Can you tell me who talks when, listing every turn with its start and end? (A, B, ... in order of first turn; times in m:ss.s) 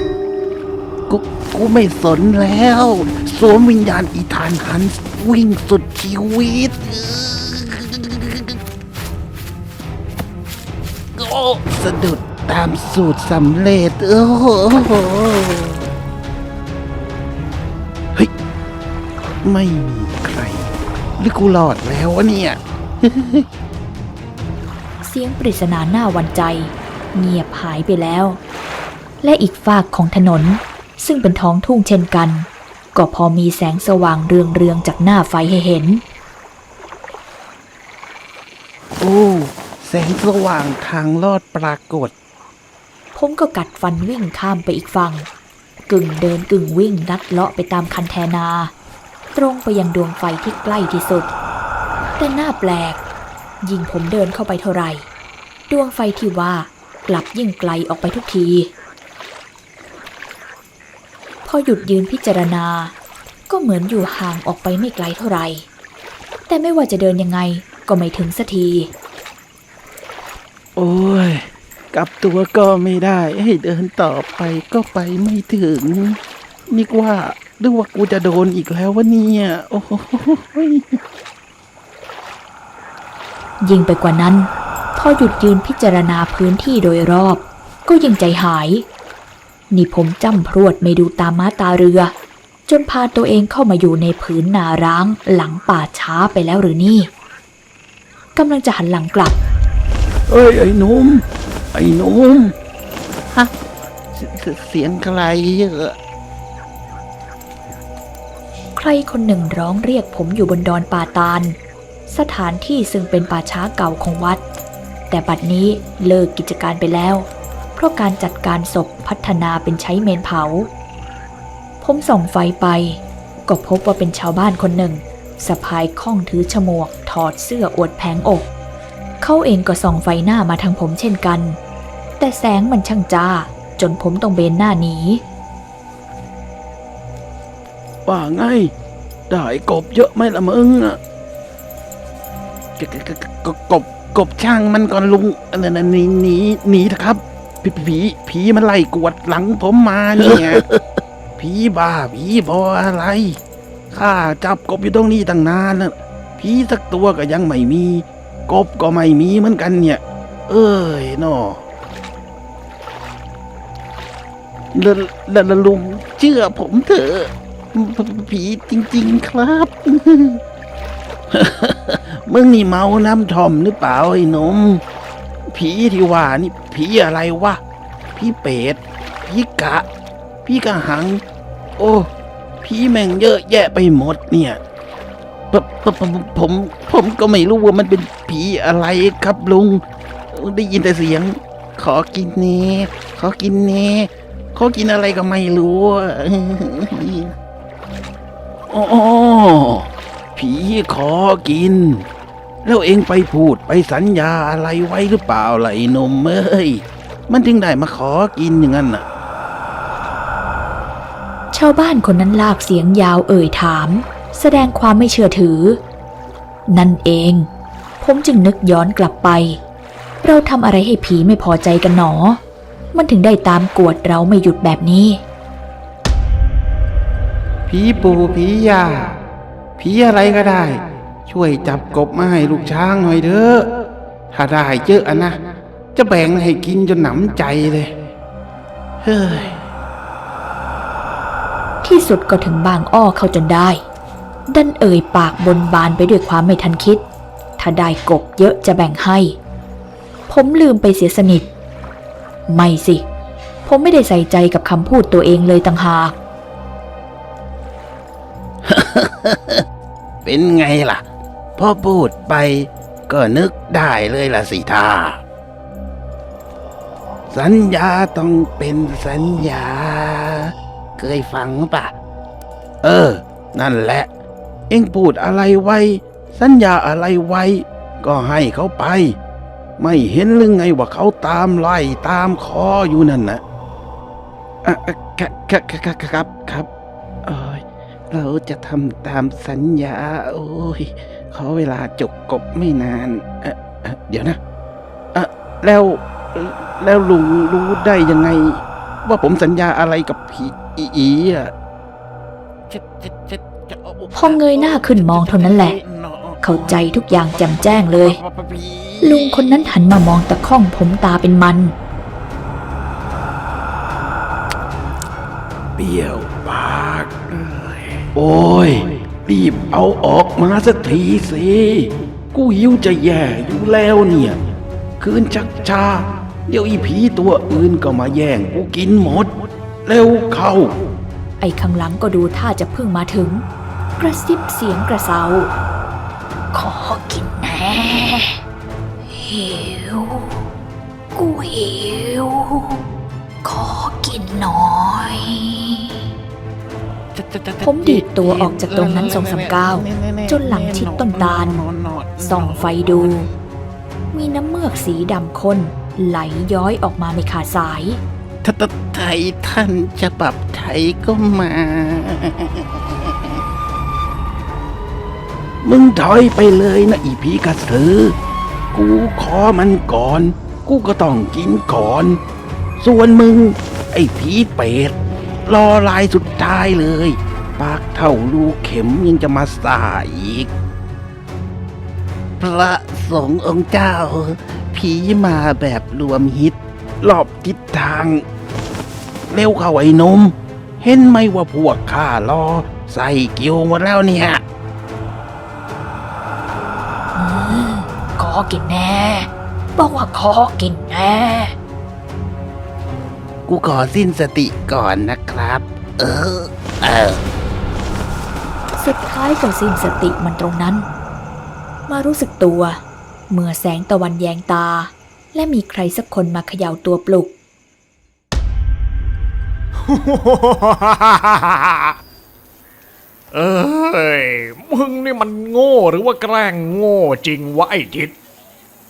0:01.1-0:08.6 A
0:11.1-0:15.8 A
0:19.4-0:23.4 A
0:25.0-0:28.4 B
0:29.2-0:36.0 B
0:39.0-0:42.1 A
0:43.1-0:45.3 B
0:45.9-0:48.7 B
0:49.3-0:51.3 B
0:52.2-0:53.0 B
0:53.6-0:55.0 B
0:55.7-0:58.7 B
1:01.4-1:02.9 B
1:03.5-1:05.7 B
1:06.5-1:08.9 B
1:10.8-1:21.0 A
1:23.6-1:28.8 B
1:29.7-1:32.1 B
1:32.7-1:37.1 B
1:38.4-1:39.4 B
1:40.3-1:42.5 A
1:44.1-1:45.9 A
1:48.8-1:51.6 B
1:52.1-1:54.4 B
1:55.1-2:00.7 B
2:01.8-2:08.5 B
2:09.2-2:11.6 B
2:12.2-2:15.2 B
2:18.0-2:18.7 A
2:19.3-2:21.0 A
2:22.8-2:30.6 A
2:31.4-2:33.4 A
2:33.9-2:41.6 A
2:44.7-2:50.4 A
2:51.3-2:54.8 A
2:55.5-2:57.6 A
2:58.1-2:59.8 A
3:00.4-3:01.2 A
3:01.8-3:02.1 A
3:02.6-3:04.6 A
3:05.5-3:09.8 A
3:10.3-3:17.3 A
3:18.7-3:22.0 A
3:22.6-3:29.0 A
3:31.5-3:35.8 B
3:36.7-3:37.5 B
3:38.0-3:39.6 B
3:40.2-3:42.4 B
3:42.9-3:45.2 B
3:47.7-3:49.2 A
3:49.8-3:53.7 A
3:54.3-3:55.4 A
3:55.9-3:57.9 A
3:59.0-3:59.6 A
4:01.8-4:03.8 B
4:04.5-4:07.0 B
4:07.6-4:09.4 B
4:10.3-4:11.5 B
4:12.5-4:13.0 B
4:13.6-4:16.2 B
4:18.6-4:19.6 A
4:20.2-4:21.0 A
4:21.6-4:25.2 A
4:27.3-4:31.9 A
4:32.8-4:34.1 A
4:34.7-4:39.2 A
4:39.8-4:43.4 A
4:44.6-4:46.7 A
4:47.2-4:54.4 A
4:55.1-5:01.5 A
5:02.7-5:09.7 A
5:04.1-5:05.8 B
5:06.4-5:08.2 B
5:09.0-5:11.7 B
5:15.8-5:24.4 A
5:25.0-5:29.3 A
5:29.8-5:30.8 A
5:31.4-5:33.4 B
5:34.0-5:35.5 B
5:36.5-5:38.4 B
5:39.1-5:40.4 B
5:41.1-5:42.8 B
5:43.4-5:46.0 B
5:47.1-5:53.3 A
5:47.6-5:51.6 B
5:52.2-5:53.3 B
5:54.1-5:58.0 B
5:58.4-6:03.3 A
6:05.6-6:08.2 A
6:08.7-6:12.2 A
6:12.8-6:20.5 A
6:22.4-6:28.2 A
6:29.3-6:34.4 A
6:37.1-6:41.5 B
6:43.5-6:47.2 A
6:48.8-6:50.9 B
6:51.9-6:57.3 B
6:59.9-7:01.9 C
7:03.3-7:08.1 C